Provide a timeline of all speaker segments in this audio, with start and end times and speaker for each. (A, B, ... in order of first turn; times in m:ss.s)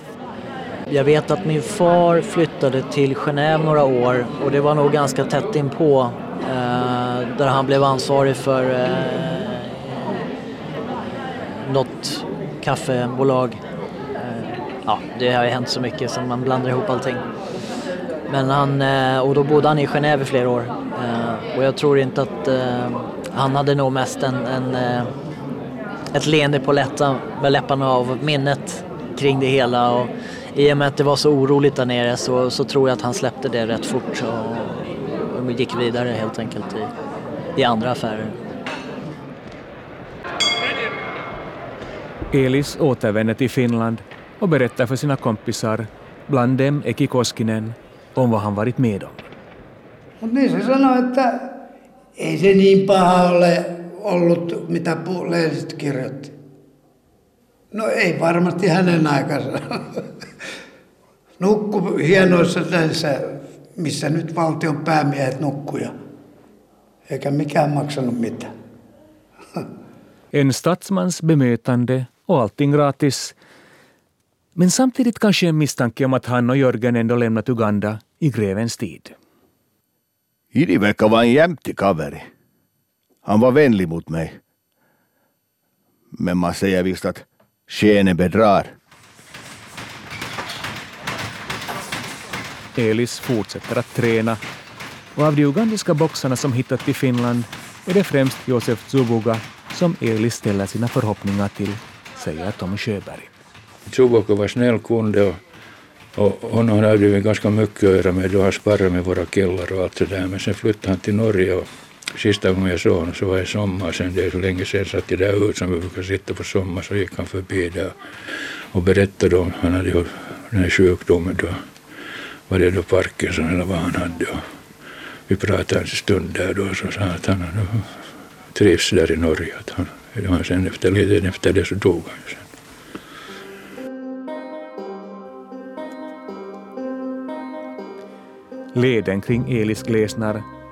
0:00.9-0:10.2 A
0:11.6-0:13.6 A
0:14.1-0:17.2 A
0:18.3-0:25.1 A
0:26.1-0:36.9 A
0:37.6-0:38.4 A
0:42.3-0:49.3 B
0:50.2-0:51.6 C
0:52.2-0:56.3 C
0:57.7-1:00.0 C
1:01.4-1:05.9 C
1:07.1-1:08.5 C
1:10.3-1:13.4 B
1:14.6-1:19.1 B
1:20.5-1:22.3 D
1:23.2-1:24.4 D
1:26.1-1:28.7 D
1:32.8-1:34.4 B
1:35.2-1:43.3 B
1:43.9-1:45.4 E
1:46.1-1:57.9 E
1:58.7-2:01.6 E
2:02.5-2:04.4 E
2:05.3-2:08.0 E
2:08.5-2:12.5 E
2:18.7-2:20.4 B